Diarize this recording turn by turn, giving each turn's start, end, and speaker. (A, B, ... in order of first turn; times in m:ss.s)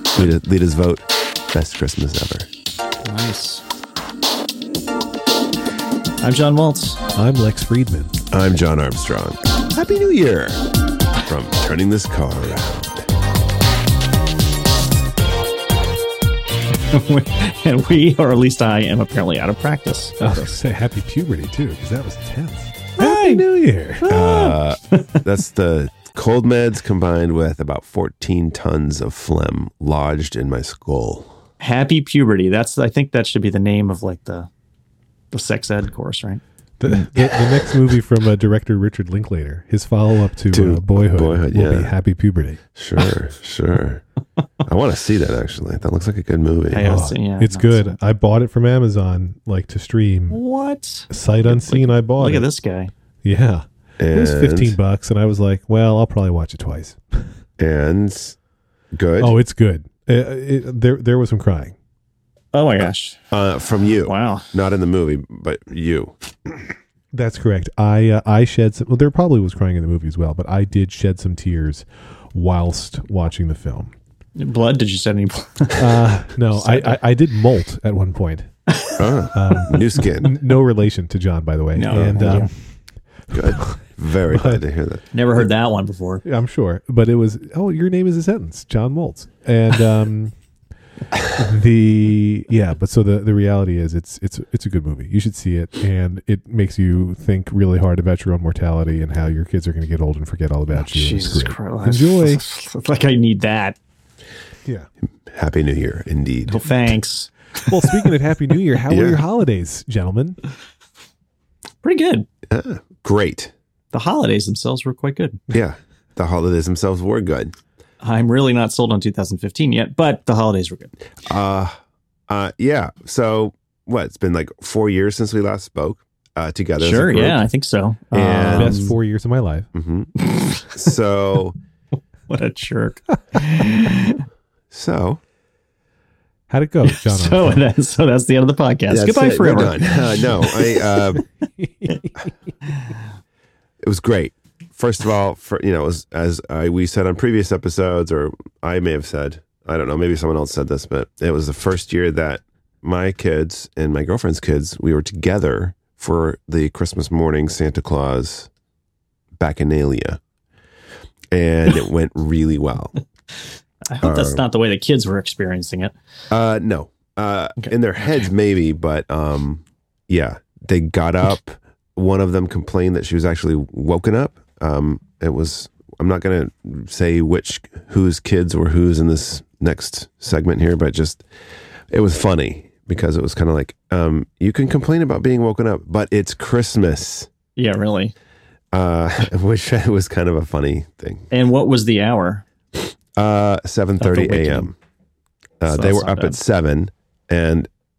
0:00.2-0:02.5 A
0:03.0-0:03.6 B
0:06.2-0:07.0 B
0:07.2-0:08.2 C
0:08.3-0:10.6 A
0:11.2-0:13.1 A
0:16.9-0:20.6 B
0:20.2-0:24.0 C
0:23.0-0:23.4 B
0:24.0-0:25.1 B
0:24.1-0:31.4 A
0:31.6-0:34.5 B
0:35.3-0:37.7 B
0:36.8-0:42.6 C
0:40.5-0:41.9 A
0:42.8-0:44.0 A
0:44.7-0:47.0 A
0:46.7-0:48.0 B
0:46.8-0:50.4 C
0:50.3-0:52.9 B
0:51.1-0:52.5 C
0:53.2-0:57.2 C
0:54.0-0:54.8 A
0:57.6-0:58.4 A
0:58.9-0:59.4 A
0:59.2-1:01.8 C
1:02.5-1:03.2 B
1:03.3-1:06.2 A
1:04.0-1:04.5 B
1:07.1-1:13.9 C
1:14.4-1:17.0 B
1:15.8-1:18.5 C
1:18.7-1:19.0 B
1:19.0-1:20.4 A
1:19.3-1:22.5 C
1:21.8-1:22.5 B
1:21.9-1:22.5 A
1:23.3-1:25.1 A
1:23.5-1:23.8 C
1:24.3-1:24.6 C
1:25.1-1:26.2 B
1:26.2-1:30.3 C
1:31.3-1:42.4 C
1:40.7-1:43.8 B
1:45.3-1:46.6 A
1:46.5-1:48.1 B
1:47.7-1:50.4 C
1:48.9-1:49.2 A
1:51.8-1:52.3 B
1:52.5-1:53.5 A
1:53.9-1:55.4 B
1:55.5-1:57.6 A
1:58.0-2:00.9 B
2:01.2-2:01.8 A
2:02.3-2:07.4 A
2:06.8-2:09.0 B
2:08.1-2:08.9 A
2:08.5-2:09.7 C
2:09.7-2:10.1 A
2:10.2-2:10.7 B
2:10.6-2:11.6 A
2:12.3-2:14.2 B
2:14.7-2:15.2 A
2:16.5-2:17.7 C
2:16.8-2:20.9 B
2:18.9-2:21.2 A
2:21.6-2:22.3 C
2:23.8-2:38.5 A
2:39.4-2:40.2 A
2:41.3-2:43.0 A
2:43.9-2:45.9 B
2:44.0-2:44.4 A
2:46.3-3:01.2 A
2:47.6-2:48.3 B
3:01.9-3:07.3 A
3:07.6-3:08.1 B
3:08.7-3:11.3 A
3:11.3-3:12.4 B
3:13.2-3:14.8 A
3:14.0-3:14.7 B
3:15.6-3:17.7 A
3:15.7-3:16.4 B